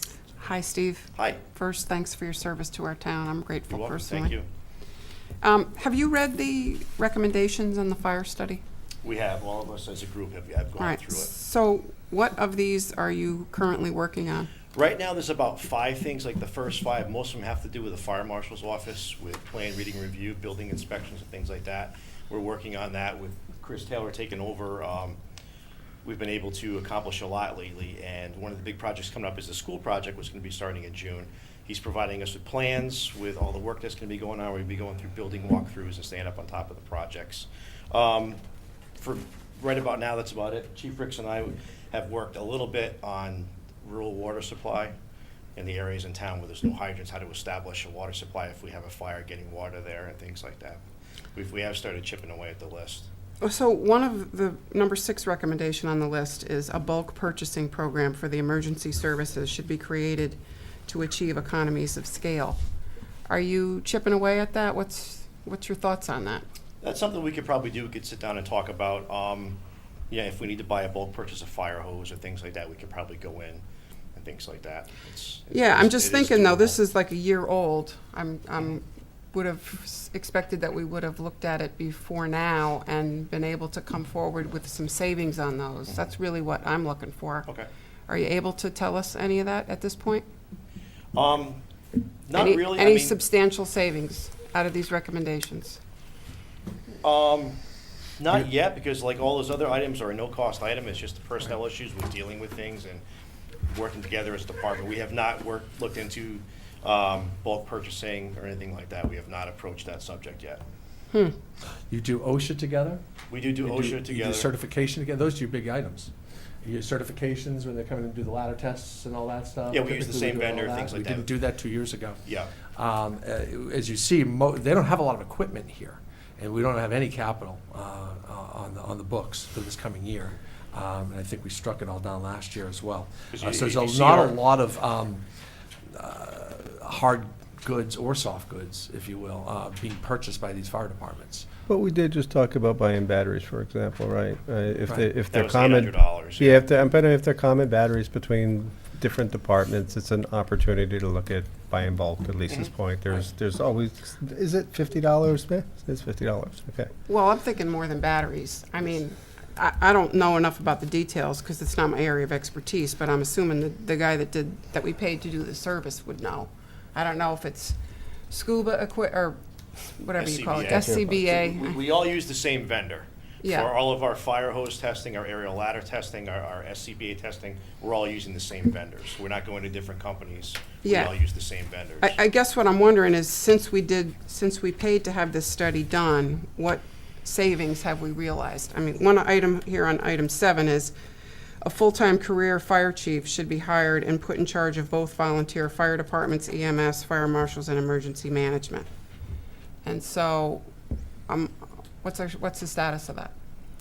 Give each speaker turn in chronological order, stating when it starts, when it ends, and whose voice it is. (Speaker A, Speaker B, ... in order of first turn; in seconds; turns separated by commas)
Speaker A: 0.4-4.3, Speaker B: 3.7-4.4, Speaker A: 5.4-8.6, Speaker B: 9.0-11.3, Speaker A: 10.8-14.5, Speaker B: 14.7-25.2, Speaker B: 26.0-38.4, Speaker B: 39.0-44.9, Speaker B: 45.5-50.8, Speaker B: 51.3-53.1, Speaker A: 53.4-62.6, Speaker A: 63.3-66.4, Speaker B: 66.8-69.6, Speaker B: 70.1-73.6, Speaker B: 74.1-76.8, Speaker A: 75.5-87.5, Speaker A: 88.1-90.2, Speaker B: 91.1-91.6, Speaker B: 92.3-93.2, Speaker A: 92.3-95.8, Speaker B: 97.0-97.6, Speaker B: 98.2-103.0, Speaker B: 103.7-110.6, Speaker C: 111.9-113.0, Speaker B: 113.3-114.5, Speaker C: 113.6-116.1, Speaker C: 116.6-122.2, Speaker B: 119.7-121.3, Speaker B: 122.2-122.5, Speaker C: 122.7-135.2, Speaker B: 133.3-134.3, Speaker C: 135.9-141.5, Speaker D: 141.7-156.9, Speaker B: 145.3-146.8, Speaker A: 157.1-167.8, Speaker A: 168.3-169.4, Speaker A: 169.9-171.8, Speaker B: 170.2-182.1, Speaker D: 170.6-171.2, Speaker A: 173.4-173.7, Speaker A: 180.8-181.1, Speaker A: 182.0-190.9, Speaker A: 191.6-198.9, Speaker A: 199.8-200.6, Speaker A: 201.3-203.3